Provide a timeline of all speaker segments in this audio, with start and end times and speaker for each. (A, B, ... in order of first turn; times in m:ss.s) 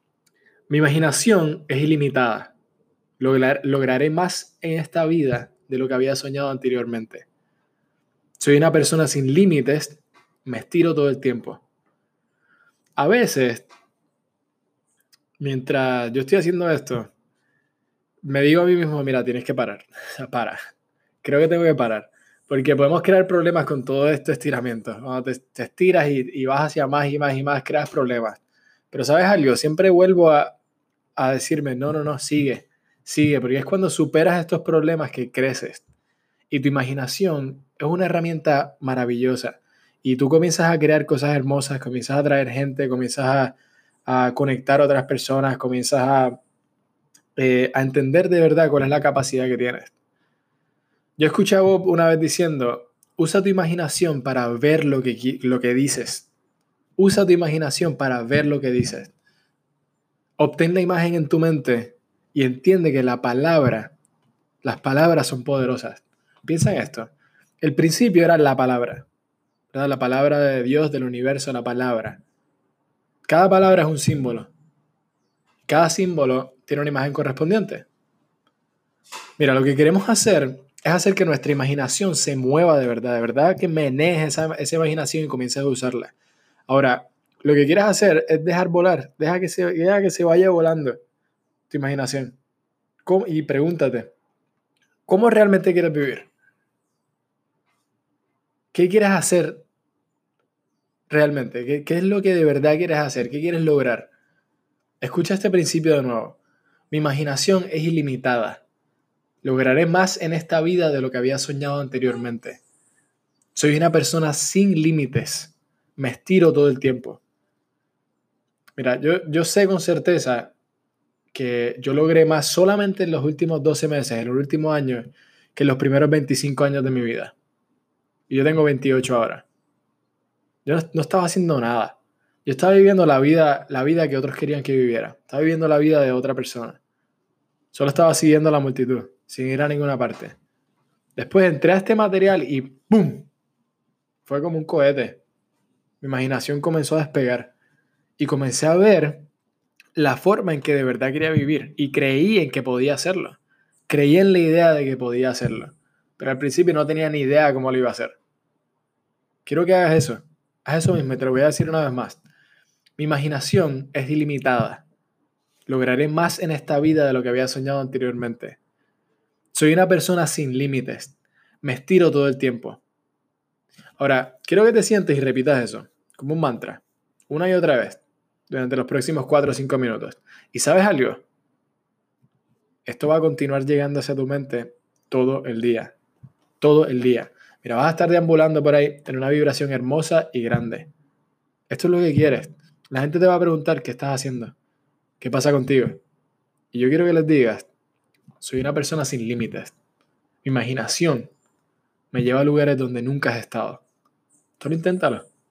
0:00.7-0:02.5 A
0:03.2-0:07.3 A
0:08.4-0:11.6 A
0:13.0-0:13.7 A
0:15.4-0:17.1 A
0:18.2-0:20.6 A
0:21.2-0:30.6 A
0:31.2-0:35.8 A
0:36.5-0:46.4 A
0:47.4-0:49.9 A
0:51.2-0:56.3 A
0:57.0-0:59.1 A
1:00.4-1:03.9 A
1:04.6-1:09.1 A
1:09.7-1:12.2 A
1:13.3-1:14.5 A
1:15.7-1:17.9 A
1:19.4-1:26.1 A
1:26.7-1:31.0 A
1:31.7-1:32.4 A
1:33.0-1:34.1 A
1:35.1-1:36.3 A
1:38.7-1:39.6 A
1:41.1-1:44.1 A
1:45.0-1:46.4 A
1:46.9-1:48.6 A
1:49.4-1:52.6 A
1:53.5-1:57.2 A
1:58.8-2:00.5 A
2:01.3-2:07.3 A
2:08.3-2:09.5 A
2:10.6-2:16.8 A
2:17.7-2:20.4 A
2:21.2-2:23.3 A
2:24.2-2:25.2 A
2:26.0-2:27.5 A
2:28.2-2:29.3 A
2:30.0-2:38.2 A
2:39.4-2:42.2 A
2:43.0-2:44.8 A
2:45.7-2:48.6 A
2:49.5-2:52.8 A
2:54.0-3:01.2 A
3:02.9-3:06.0 A
3:06.6-3:10.9 A
3:11.7-3:14.6 A
3:15.2-3:16.0 A
3:16.7-3:17.7 A
3:18.4-3:19.8 A
3:20.4-3:21.3 A
3:22.1-3:23.8 A
3:24.6-3:25.3 A